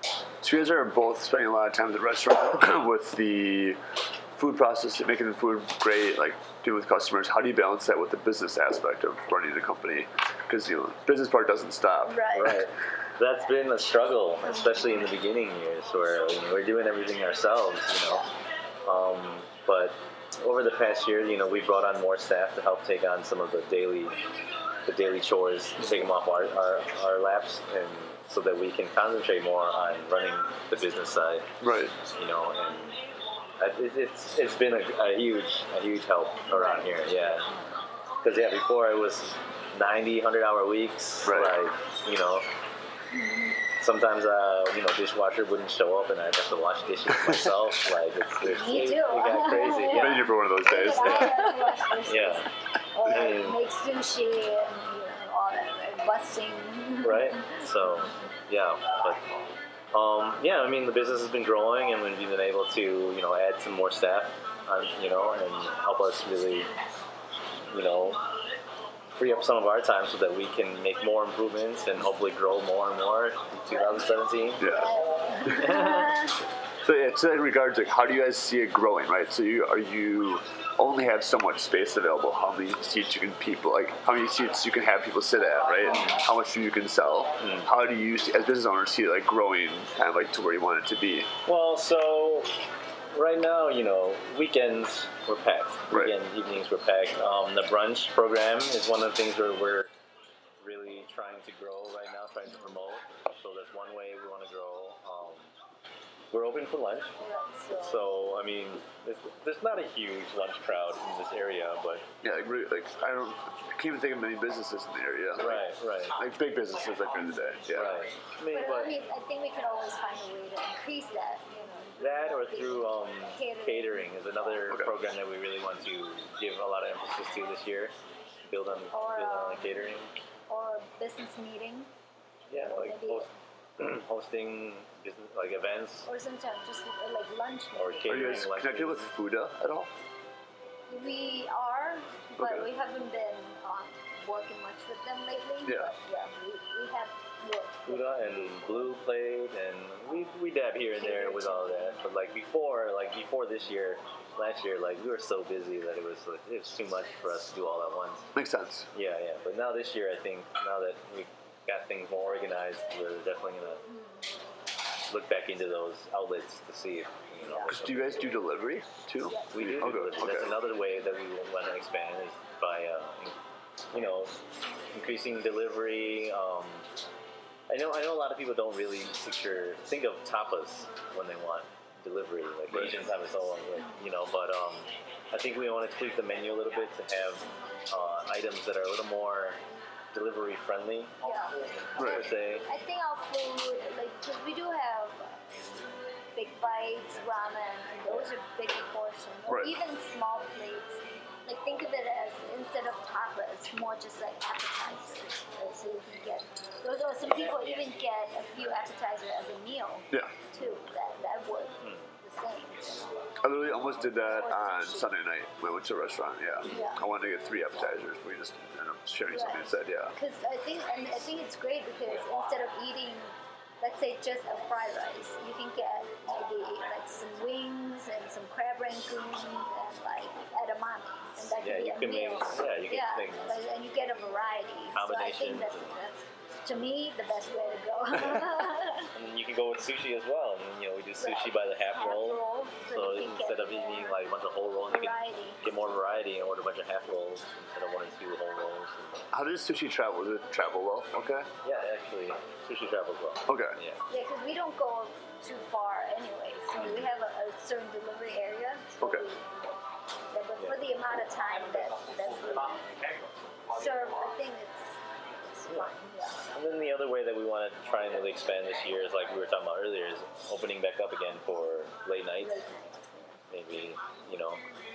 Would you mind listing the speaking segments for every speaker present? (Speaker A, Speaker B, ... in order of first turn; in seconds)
Speaker A: 0.4-3.8, 4.3-12.6, 31.6-31.9, 41.2-41.5, 49.9-51.5, 74.6-76.2, 76.8-91.3, 112.2-115.6, 116.2-118.0, 138.1-139.9, 142.3-142.7, 145.6-145.9, 158.3-158.9, 167.7-170.6, 182.7-183.0, 192.0-192.3, 199.5-199.7, 213.4-220.1, 249.3-251.5, 253.5-253.8
Speaker B: 12.0-12.6, 36.5-36.9, 43.1-43.6, 48.4-57.6, 74.6-76.4, 85.8-86.2, 107.2-108.0, 118.5-124.1, 128.9-129.8, 130.5-131.9, 132.6-133.3, 136.1-138.5, 140.9-148.0, 150.9-151.9, 163.9-164.2, 167.4-167.7, 169.2-169.8, 191.2-195.7, 196.3-213.2, 214.0-215.1, 216.7-217.0, 219.3-239.1, 241.2-244.2, 244.9-245.6, 254.1-259.5, 260.3-263.1, 263.7-266.4, 272.4-273.4
Speaker C: 12.3-18.2, 18.8-24.2, 24.8-33.0, 33.6-37.5, 38.2-42.5, 43.8-50.2, 51.0-51.4, 52.0-52.5, 53.0-53.6, 57.0-59.2, 59.9-66.7, 67.7-68.2, 69.2-74.7, 75.6-76.0, 87.4-87.7, 91.5-92.5, 93.1-99.9, 100.6-105.5, 106.3-107.2, 107.7-112.0, 115.4-116.2, 117.7-119.0, 122.0-127.9, 128.5-130.1, 132.5-136.1, 137.7-139.1, 147.8-158.3, 158.9-163.8, 165.1-168.4, 169.5-173.3, 173.9-174.3, 174.9-176.9, 177.7-189.6, 190.1-191.1, 192.0-192.6, 198.1-198.3, 211.8-212.1, 231.6-233.5, 234.9-236.0, 239.1-242.4, 242.9-249.3, 251.6-254.0, 256.8-257.1, 265.7-265.9, 266.5-272.6, 273.5-274.6